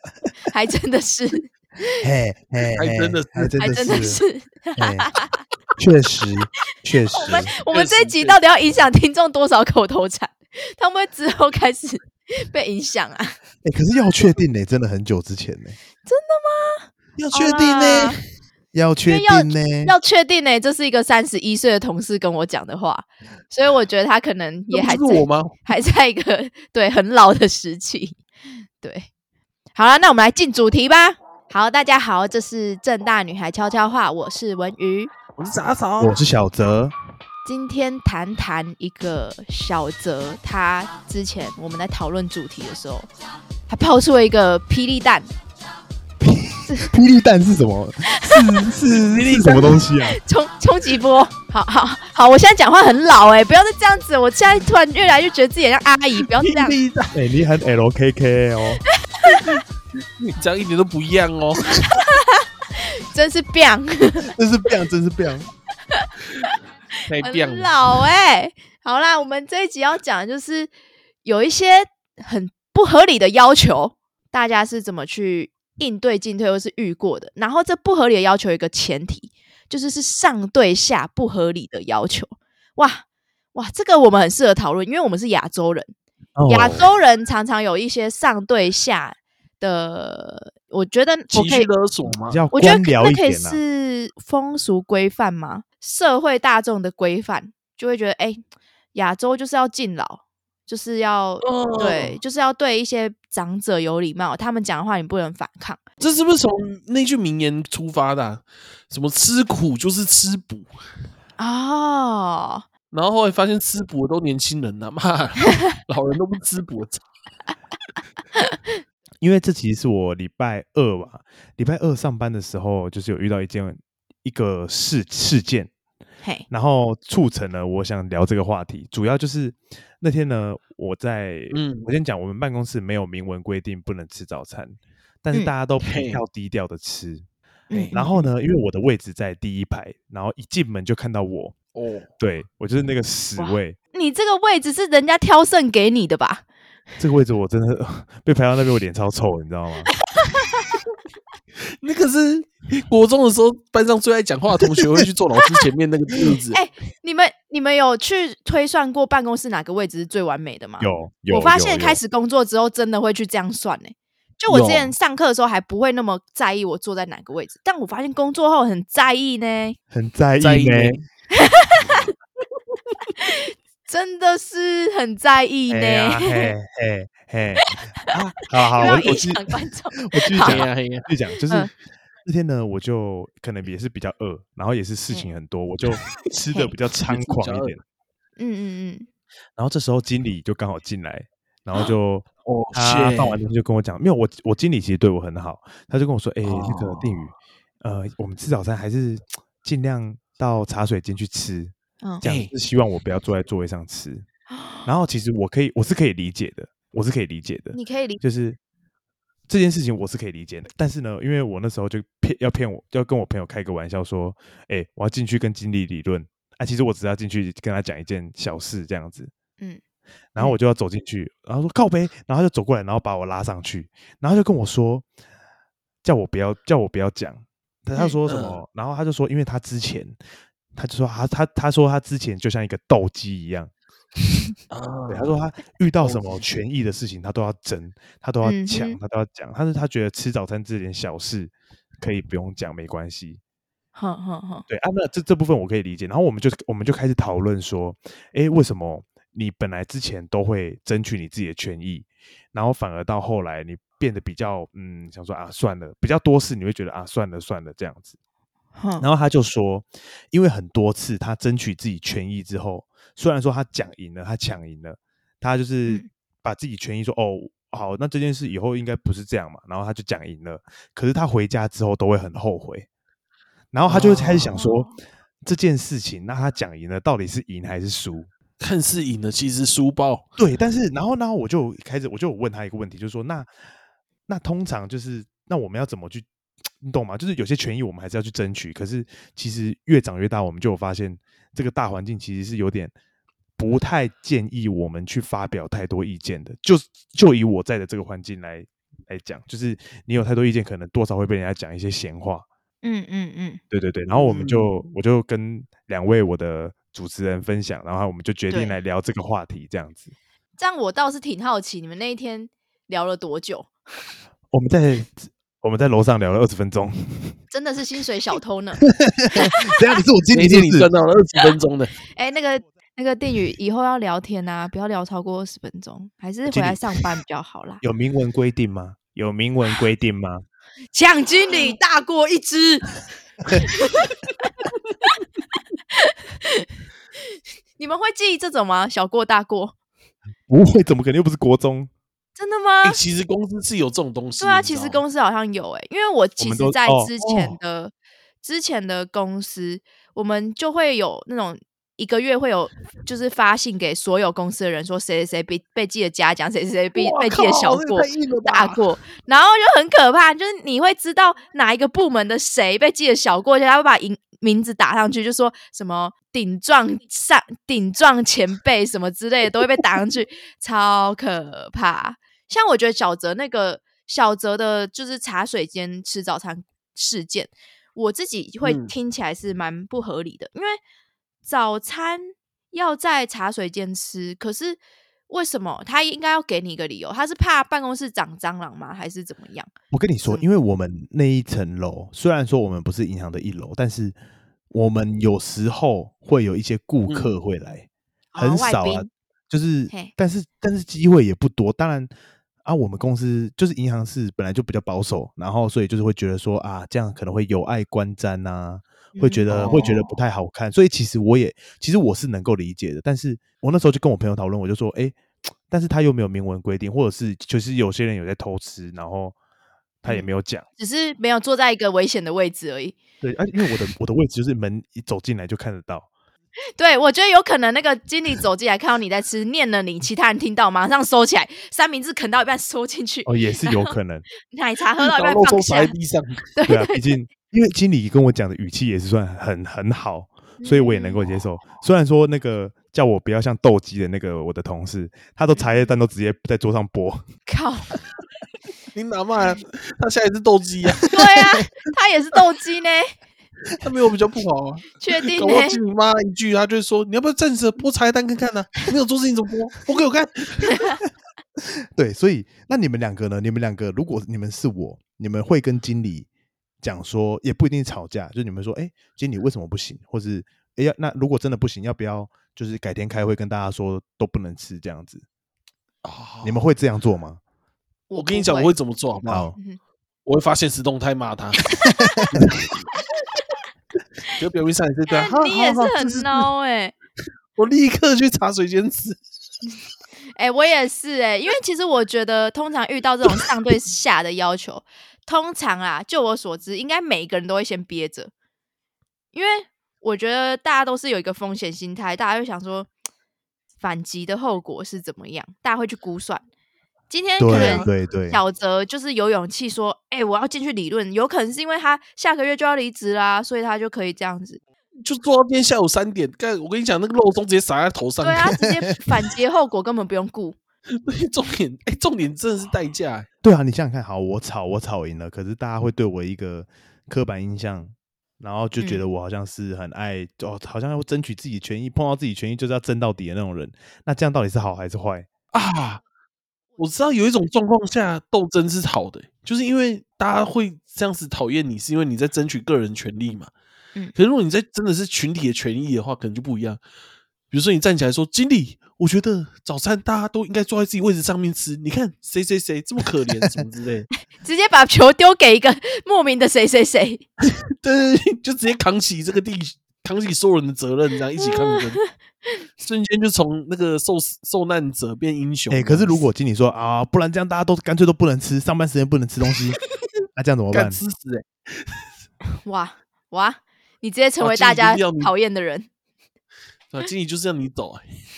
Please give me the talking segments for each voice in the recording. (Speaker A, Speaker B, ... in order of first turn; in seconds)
Speaker A: 0.5-2.0, 3.6-5.4, 7.1-13.4, 16.1-18.2, 19.1-28.2, 28.8-29.1, 29.8-35.1, 37.5-43.1, 43.7-45.3, 46.7-46.9, 48.0-48.5, 49.6-56.8, 59.0-59.6, 61.6-64.3, 65.9-70.7, 71.2-85.9, 86.5-91.7, 92.5-98.4, 98.9-105.8, 111.4-112.7, 137.7-138.2, 143.4-146.5, 150.2-150.8, 156.5-169.8, 171.3-172.1, 173.2-176.5, 178.7-180.6, 188.4-189.1, 204.5-204.9, 207.7-208.2, 238.4-239.0, 243.9-244.7, 258.8-259.1, 274.6-274.9, 302.8-303.6, 308.5-308.8, 310.6-313.7, 317.5-319.7, 322.1-327.8, 330.9-333.0, 333.6-334.1, 335.9-336.7, 337.8-339.8, 342.4-343.0, 344.4-380.8, 381.4-389.7, 398.3-399.1, 409.1-409.9, 420.1-423.0, 426.8-433.9, 434.4-435.9, 436.5-437.1, 440.6-441.2, 445.5-445.9, 447.5-448.0, 451.1-453.1, 455.0-455.8, 460.6-461.0, 478.1-478.7, 485.1-486.9, 490.4-498.3, 499.3-502.9, 503.8-506.5, 507.1-514.6, 518.2-520.6, 554.4-557.2, 561.4-562.6, 572.6-575.9
Speaker B: 2.0-4.2, 4.8-5.1, 5.8-7.5, 13.6-15.8, 18.7-19.9, 36.0-36.9, 46.2-50.2, 57.1-58.9, 64.2-65.5, 86.4-86.9, 92.3-93.6, 119.2-125.7, 126.5-137.2, 137.9-141.6, 142.2-143.8, 147.0-149.9, 160.8-162.0, 169.9-171.0, 175.7-181.7, 182.2-187.8, 189.6-204.3, 204.8-208.6, 209.5-219.3, 220.3-225.1, 226.0-230.2, 230.7-233.7, 235.1-243.4, 244.7-258.2, 259.0-272.9, 273.7-274.9, 275.4-278.3, 280.4-283.5, 284.3-286.3, 286.8-292.9, 293.6-302.5, 303.7-310.1, 314.5-317.4, 318.8-320.9, 326.5-327.0, 327.8-330.4, 340.5-341.9, 346.4-347.1, 389.9-394.1, 394.7-402.1, 402.6-419.4, 420.0-420.6, 423.2-426.1, 433.3-434.3, 436.7-447.2, 462.0-466.3, 466.8-475.2, 476.4-477.4, 479.3-479.6, 481.9-482.4, 507.4-508.4, 518.6-519.0, 523.4-535.3, 565.7-569.8, 570.4-571.0
Speaker C: 2.8-3.5, 7.2-8.4, 17.2-18.2, 24.7-25.6, 35.4-36.2, 48.8-49.8, 56.2-57.1, 59.2-62.0, 67.1-67.7, 91.3-92.4, 101.4-102.2, 106.0-110.7, 112.9-117.0, 131.5-131.9, 135.8-136.2, 141.8-142.1, 151.8-156.6, 164.5-164.9, 170.4-171.0, 180.4-181.1, 187.0-187.8, 192.5-193.4, 196.4-197.3, 202.2-202.5, 228.3-228.6, 234.7-235.3, 236.0-236.4, 273.9-274.6, 278.6-280.3, 304.3-304.7, 320.3-322.0, 342.8-345.0, 347.2-347.6, 356.9-358.8, 378.6-378.9, 397.1-397.4, 409.5-410.1, 435.0-436.4, 448.9-451.5, 453.8-460.8, 476.0-476.6, 478.1-479.5, 480.2-481.7, 482.3-482.8, 484.4-486.5, 487.6-489.2, 507.5-507.9, 515.0-518.6, 520.9-523.3, 535.5-536.0, 536.8-543.5, 544.1-546.8, 547.5-554.1, 557.7-562.0, 562.8-566.2, 570.7-572.1, 574.4-575.3, 576.9-578.1